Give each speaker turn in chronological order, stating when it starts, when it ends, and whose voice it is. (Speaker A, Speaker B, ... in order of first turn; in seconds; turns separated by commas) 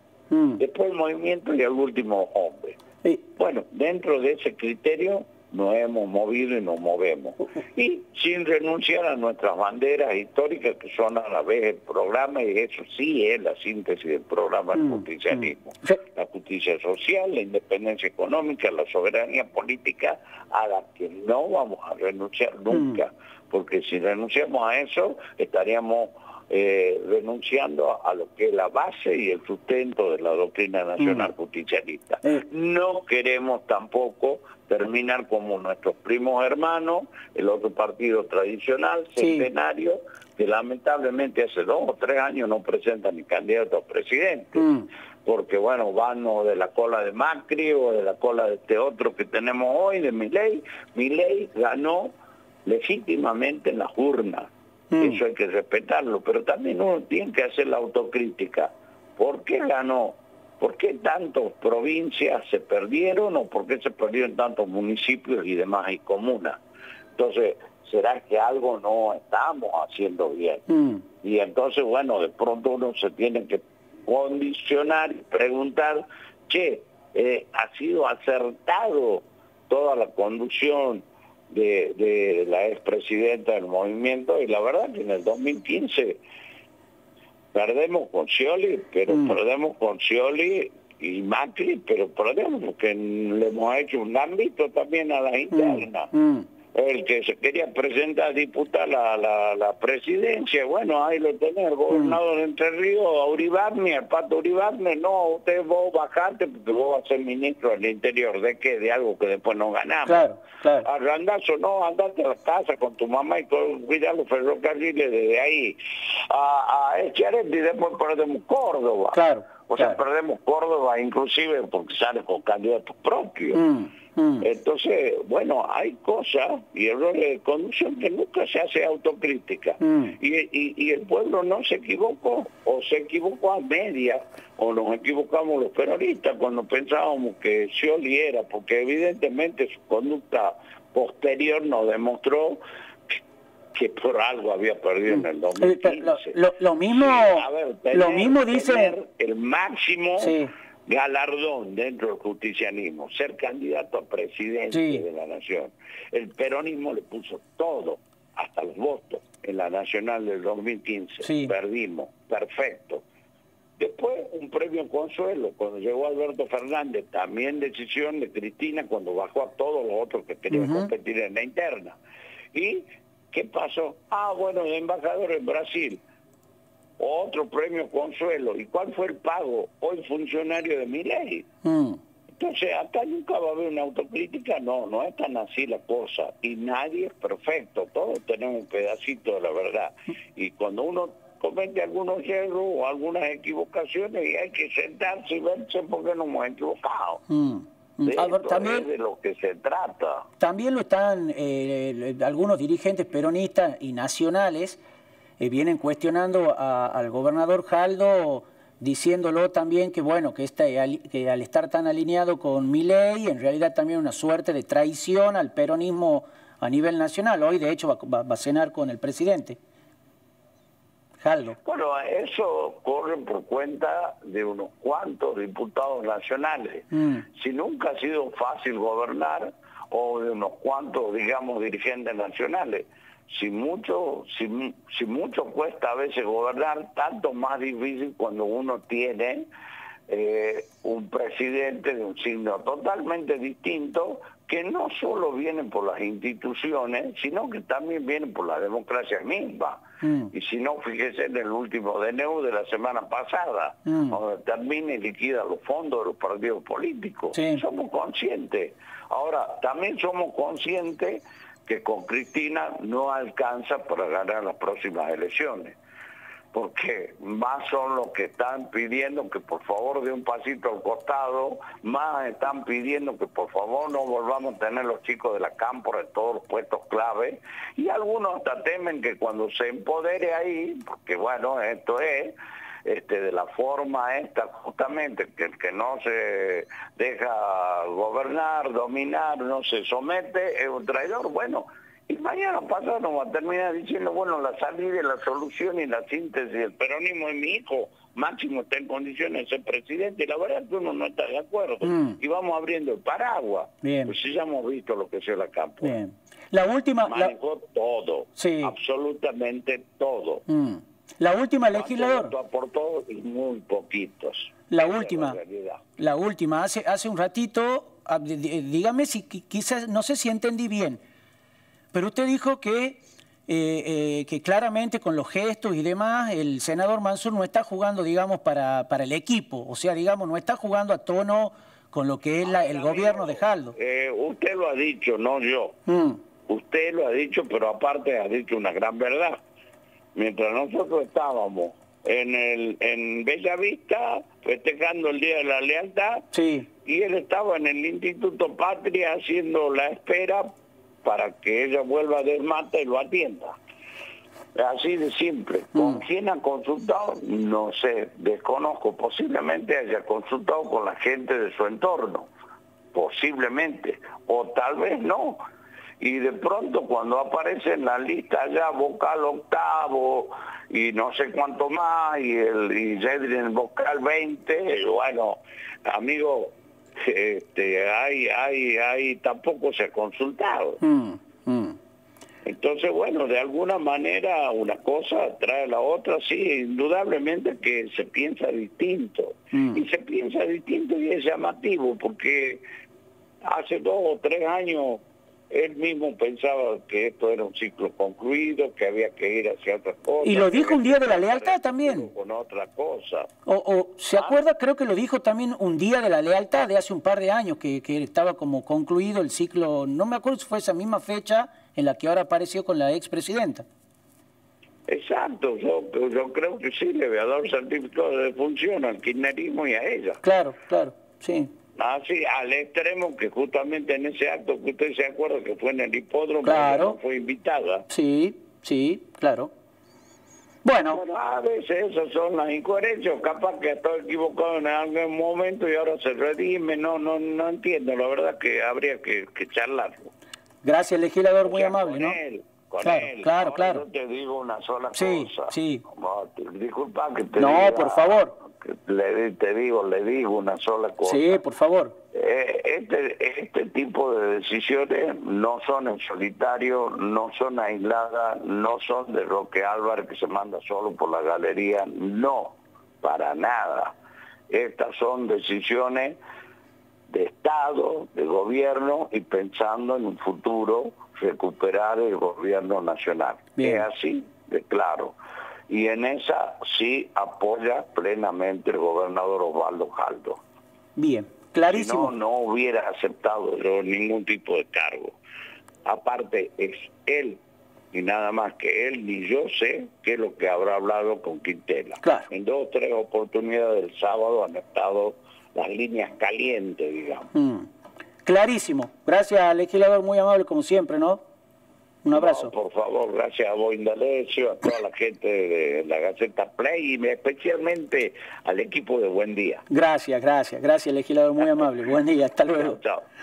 Speaker A: 0.3-0.6, Speaker B: 0.6-2.8, Speaker B: 3.4-44.7, Speaker A: 14.8-16.0, Speaker A: 22.7-23.0, Speaker A: 31.0-31.3, Speaker A: 39.2-39.5, Speaker A: 44.6-44.9, Speaker B: 45.2-52.1, Speaker B: 52.7-66.6, Speaker A: 54.9-55.2, Speaker B: 67.2-70.6, Speaker A: 70.7-71.0, Speaker B: 71.2-86.2, Speaker B: 87.5-96.1, Speaker A: 89.1-89.4, Speaker A: 95.5-96.5, Speaker B: 96.8-110.2, Speaker A: 101.9-102.2, Speaker A: 110.1-110.9, Speaker B: 110.8-123.6, Speaker A: 119.1-120.0, Speaker A: 123.5-124.5, Speaker B: 124.4-143.2, Speaker A: 129.8-130.2, Speaker B: 143.7-146.4, Speaker A: 145.1-148.9, Speaker B: 146.9-163.0, Speaker A: 150.2-150.5, Speaker A: 154.7-155.0, Speaker A: 161.2-161.5, Speaker B: 163.8-172.0, Speaker A: 170.5-170.9, Speaker B: 172.5-176.0, Speaker B: 177.0-181.5, Speaker A: 181.6-182.0, Speaker B: 182.4-197.2, Speaker A: 197.3-198.9, Speaker B: 198.1-200.3, Speaker A: 200.4-204.8, Speaker A: 205.4-219.6, Speaker A: 221.2-221.6, Speaker B: 221.6-239.5, Speaker A: 226.9-227.2, Speaker B: 240.1-265.8, Speaker A: 250.0-250.3, Speaker A: 253.9-254.2, Speaker A: 257.3-257.6, Speaker B: 266.5-282.3, Speaker B: 282.9-306.0, Speaker A: 301.8-302.2, Speaker A: 303.8-304.1, Speaker A: 305.8-307.3, Speaker B: 307.1-310.4, Speaker A: 308.4-308.7, Speaker A: 310.5-312.3, Speaker B: 311.7-315.8, Speaker A: 314.7-315.4, Speaker A: 316.0-321.0, Speaker A: 321.9-333.8, Speaker B: 332.4-335.8, Speaker A: 335.9-336.2, Speaker B: 336.5-339.4, Speaker B: 340.2-346.2, Speaker A: 346.3-346.7, Speaker B: 346.9-350.5, Speaker B: 351.0-353.6, Speaker B: 354.6-362.3, Speaker A: 355.8-356.0, Speaker B: 362.9-365.4, Speaker B: 366.0-380.8, Speaker A: 380.8-381.8, Speaker B: 382.4-392.6, Speaker A: 389.5-389.8, Speaker B: 393.4-403.3, Speaker A: 400.2-402.1, Speaker A: 403.4-413.6, Speaker B: 414.9-420.2, Speaker A: 420.2-421.5, Speaker B: 421.8-427.9, Speaker A: 426.4-427.0, Speaker A: 427.9-429.5, Speaker A: 430.6-431.0, Speaker B: 430.8-440.1, Speaker A: 440.6-442.2, Speaker B: 441.4-451.4, Speaker A: 442.8-443.8, Speaker A: 444.9-445.8, Speaker A: 447.4-448.3, Speaker A: 451.1-451.9, Speaker B: 452.1-463.9, Speaker B: 464.5-466.2, Speaker B: 467.1-475.2, Speaker A: 473.6-473.8, Speaker B: 475.7-480.4, Speaker A: 480.9-482.1, Speaker B: 481.7-485.2, Speaker B: 485.9-487.4, Speaker B: 487.9-497.3, Speaker A: 492.0-492.3, Speaker A: 497.3-497.7, Speaker A: 498.2-501.2, Speaker A: 502.0-502.5, Speaker B: 502.1-509.6, Speaker A: 509.7-512.8, Speaker B: 511.4-511.7, Speaker B: 512.5-513.1